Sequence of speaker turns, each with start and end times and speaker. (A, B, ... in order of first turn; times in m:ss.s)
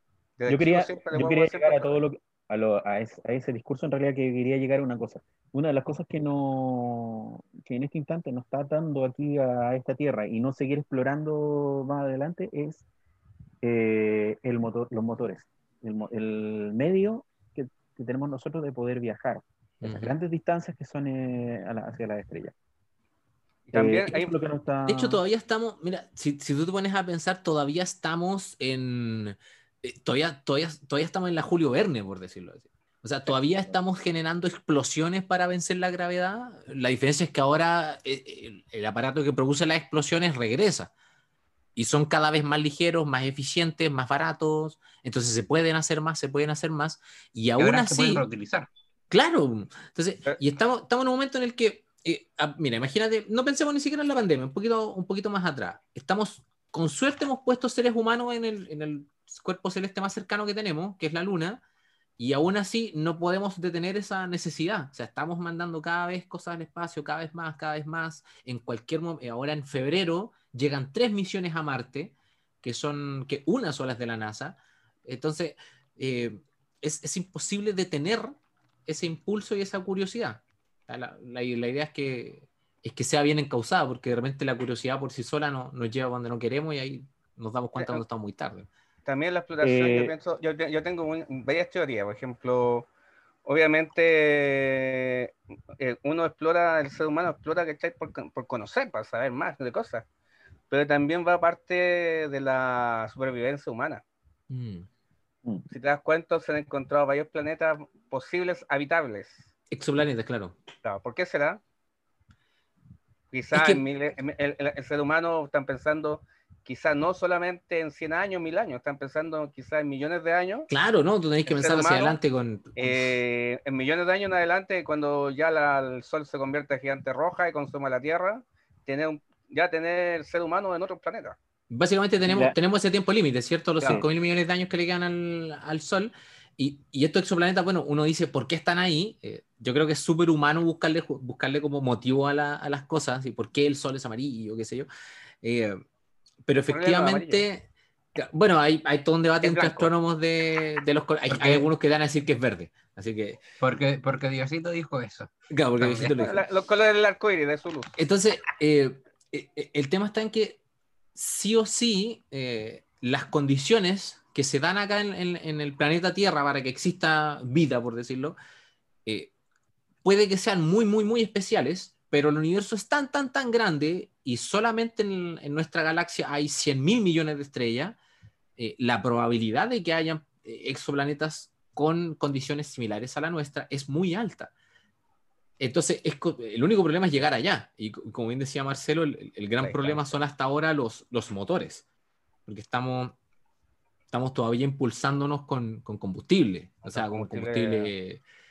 0:00.4-0:02.0 A
0:00.5-0:12.8 B
0:13.6-0:22.5 B
0:19.8-0:20.2 C
0:23.7-0:24.3 A
0:23.7-0:25.2 B
0:24.9-0:40.9 C
0:41.8-0:48.2 C
0:47.6-0:48.7 D
0:49.1-1:01.6 C
1:02.2-1:18.3 C
1:18.9-1:28.7 C
1:27.8-1:28.0 A
1:29.1-1:32.9 A
1:29.6-1:30.1 B
1:33.4-1:40.1 A
1:40.7-1:44.0 A
1:44.5-1:44.9 C
1:45.7-1:49.5 A
1:49.7-1:50.6 C
1:50.8-1:51.6 A
1:53.3-2:00.7 A
1:53.5-1:53.8 C
2:00.7-2:03.1 C
2:01.5-2:02.2 A
2:02.8-2:11.4 A
2:11.7-2:24.9 C
2:12.3-2:12.6 B
2:25.4-2:25.8 C
2:26.5-2:33.4 C
2:26.7-2:27.4 A
2:29.4-2:29.9 A
2:31.3-2:31.7 D
2:33.6-2:36.4 D
2:35.5-2:36.4 C
2:36.2-2:37.9 A
2:38.0-2:40.6 C
2:41.2-2:48.4 C
2:49.1-2:49.3 C
2:50.0-2:58.0 C
2:58.6-3:04.5 C
3:05.6-3:11.9 C
3:09.6-3:10.1 A
3:12.5-3:13.2 C
3:14.1-3:18.2 C
3:16.8-3:17.9 A